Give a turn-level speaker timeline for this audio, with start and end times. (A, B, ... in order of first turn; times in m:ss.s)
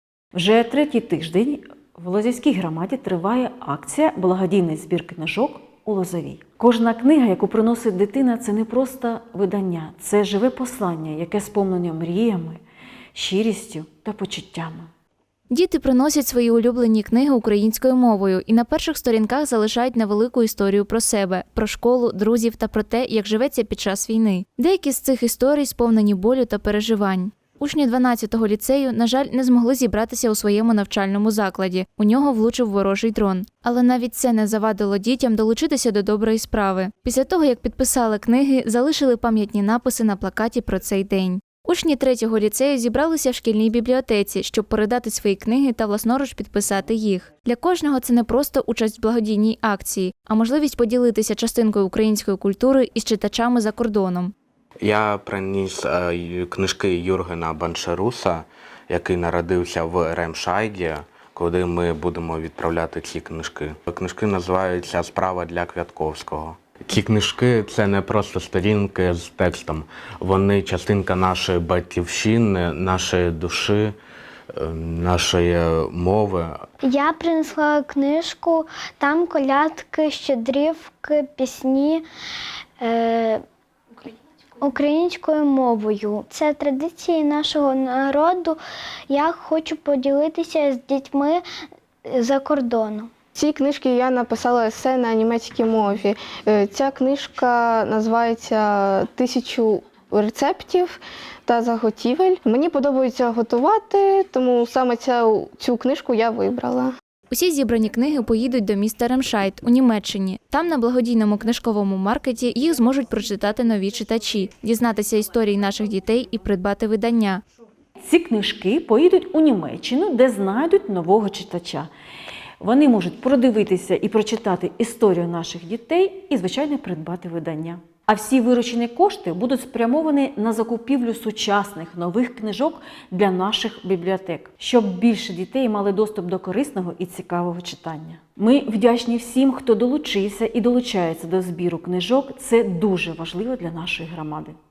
0:00.3-0:12.6 A
0:13.1-0:14.9 A
0:15.5-0:54.3 B
0:54.8-1:14.0 C
1:14.5-1:16.6 C
1:16.8-1:22.0 D
1:22.8-1:23.4 D
1:24.6-1:31.4 D
1:32.0-1:33.1 D
1:33.3-1:46.9 E
1:47.3-1:57.4 B
1:58.0-2:01.9 A
2:02.6-2:24.6 A